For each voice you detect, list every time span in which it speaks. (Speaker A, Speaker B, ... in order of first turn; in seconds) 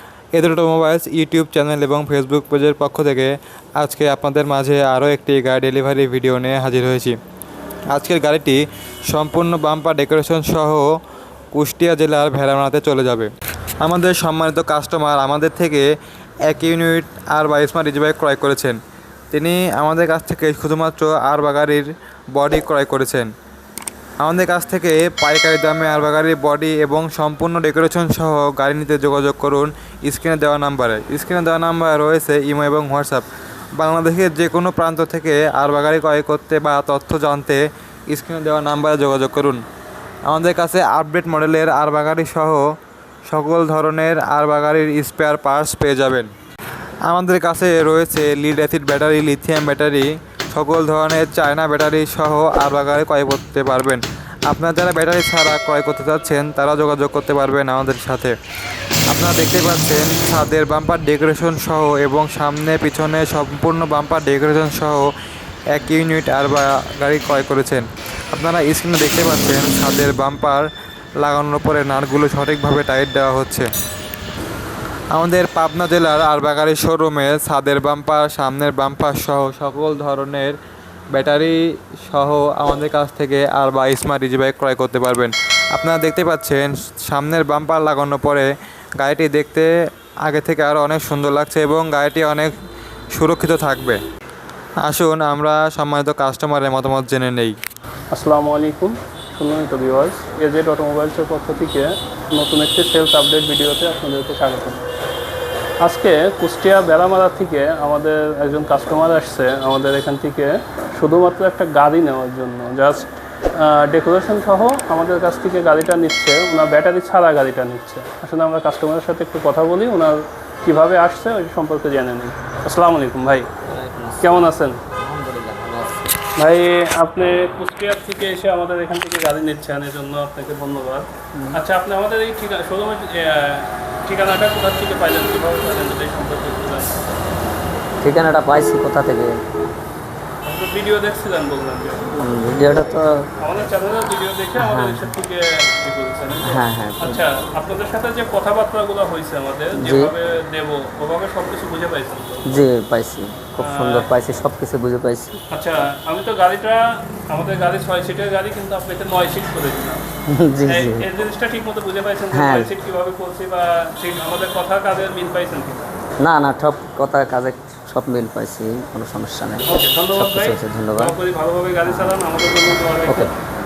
Speaker A: 0.3-7.2, 7.9-10.9, 11.5-13.3, 13.8-15.9, 16.5-18.8, 19.3-23.3, 24.2-33.2, 33.8-39.6, 40.3-42.7, 43.3-46.3, 47.1-58.4, 59.1-65.1, 65.7-70.7, 71.2-73.7, 75.2-80.5, 81.1-89.7, 90.3-92.5, 93.2-94.0, 94.8-97.6
Speaker B: 98.1-104.8, 105.8-123.5, 124.2-124.8, 126.4-137.0, 140.4-142.3, 143.4-152.7, 153.6-154.1, 155.5-160.0, 160.7-165.9, 169.7-173.3
Speaker C: 123.7-126.2, 138.0-139.4, 142.2-143.3, 144.6-145.1, 146.4-147.2, 149.7-150.1, 152.4-155.4, 160.3-161.1, 162.3-162.7, 166.2-171.2, 171.9-172.1, 173.1-173.3